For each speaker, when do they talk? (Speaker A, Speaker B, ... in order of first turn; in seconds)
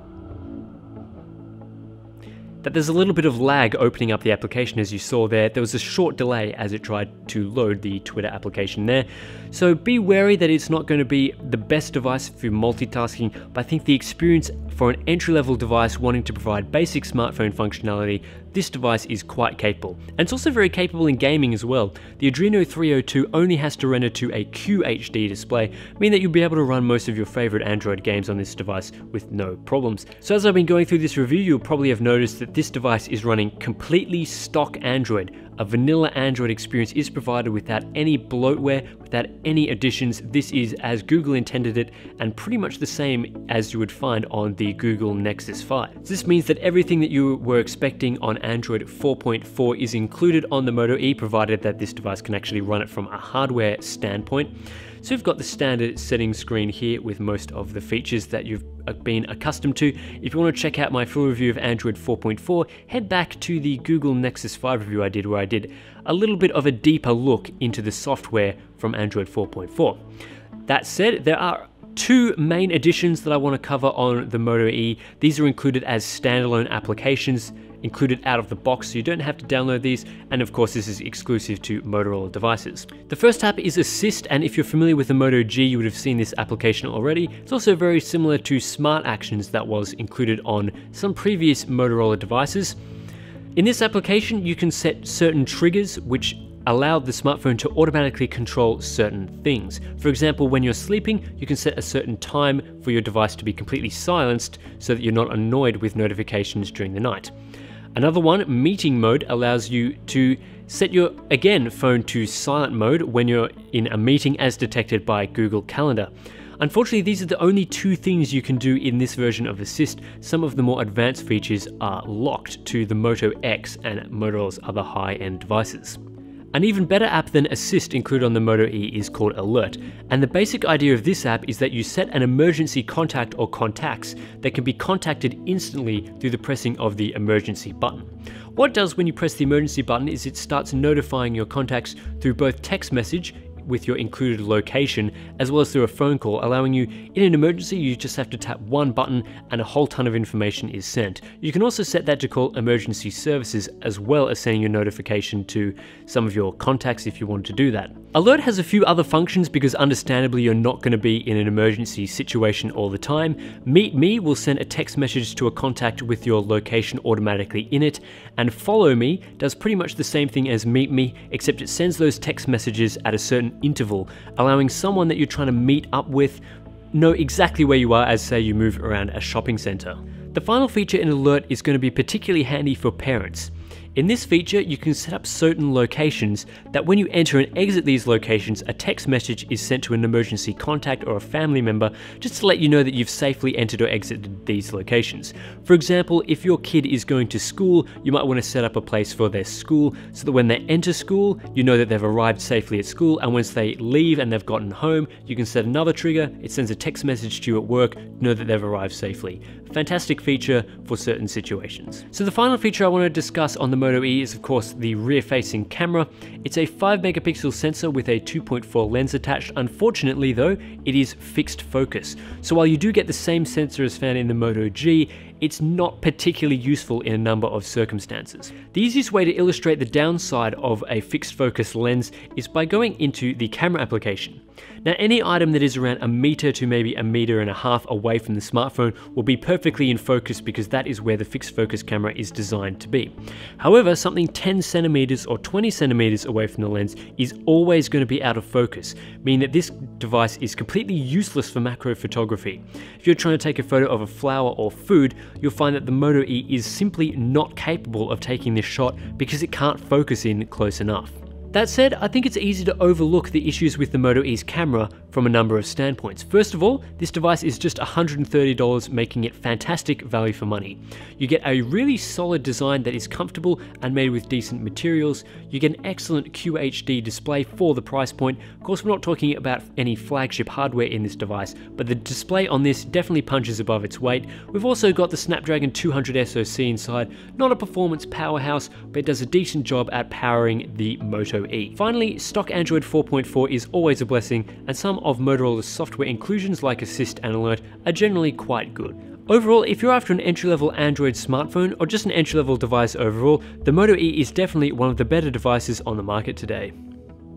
Speaker A: 2.6-70.0, 70.7-92.8, 93.6-107.3, 108.0-126.0, 126.5-176.4, 176.9-306.7